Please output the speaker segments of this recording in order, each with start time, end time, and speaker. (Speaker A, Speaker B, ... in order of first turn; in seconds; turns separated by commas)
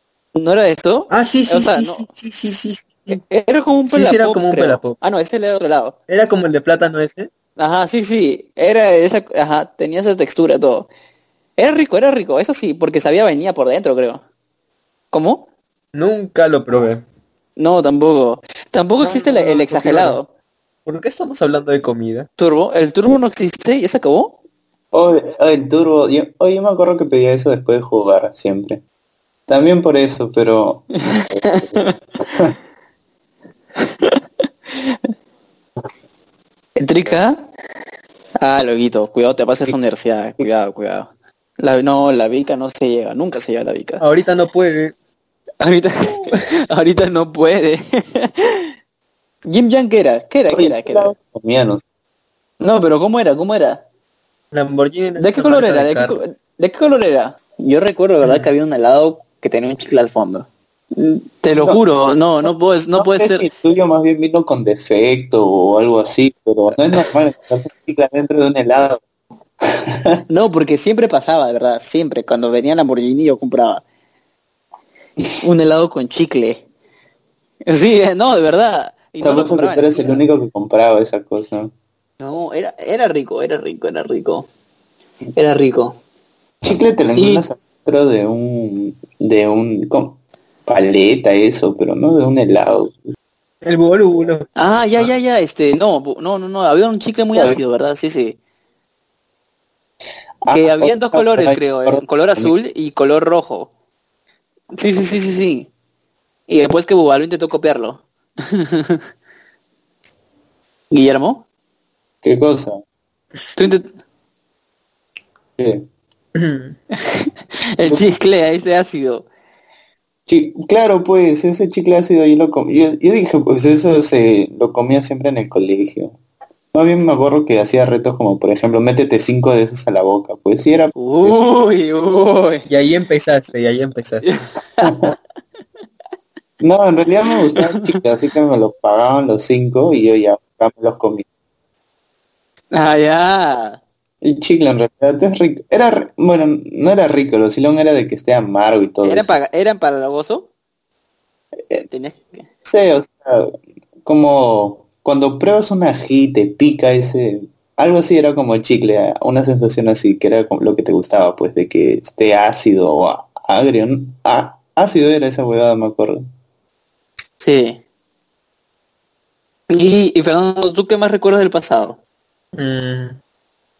Speaker A: 0.3-2.1, Speaker B: 1.1-3.2, Speaker A: 3.1-6.0, Speaker B: 3.9-5.0, Speaker B: 6.1-7.3, Speaker A: 7.6-10.9, Speaker A: 11.6-14.2, Speaker A: 15.1-15.5, Speaker B: 15.9-17.0, Speaker A: 17.6-20.3, Speaker B: 19.0-20.2, Speaker B: 20.9-22.3, Speaker A: 22.4-24.4, Speaker C: 24.9-28.8, Speaker C: 29.5-32.5, Speaker A: 31.5-31.9, Speaker A: 36.8-37.5, Speaker A: 38.4-44.0, Speaker B: 44.0-44.9, Speaker A: 45.6-48.7, Speaker A: 49.5-51.1, Speaker C: 50.5-51.8, Speaker A: 52.6-53.8, Speaker B: 54.5-56.2, Speaker A: 55.2-63.5, Speaker C: 61.5-61.8, Speaker C: 62.4-69.0, Speaker A: 70.3-73.8, Speaker A: 75.4-76.6, Speaker A: 77.7-80.2, Speaker C: 79.2-81.7, Speaker A: 82.2-84.5, Speaker A: 85.3-86.0, Speaker C: 86.6-93.0, Speaker A: 87.2-87.4, Speaker B: 93.6-95.1, Speaker A: 94.6-98.4, Speaker C: 97.3-97.6, Speaker C: 100.4-102.5, Speaker A: 100.5-103.7, Speaker A: 104.7-105.7, Speaker A: 106.5-108.0, Speaker A: 108.7-109.0, Speaker A: 110.9-111.4, Speaker C: 112.2-112.8, Speaker A: 113.5-113.9, Speaker C: 115.6-115.8, Speaker B: 116.3-116.7, Speaker A: 117.0-119.3, Speaker C: 117.8-118.1, Speaker C: 120.3-126.2, Speaker C: 126.7-131.4, Speaker A: 130.9-132.7, Speaker B: 132.7-134.4, Speaker A: 134.3-134.9, Speaker C: 134.8-135.1, Speaker C: 136.6-141.2, Speaker A: 142.7-143.8, Speaker C: 144.2-149.4, Speaker A: 149.0-150.5, Speaker A: 151.9-152.4, Speaker C: 152.7-153.5, Speaker C: 154.0-166.2, Speaker A: 167.4-167.8, Speaker A: 169.7-172.0, Speaker B: 172.6-173.2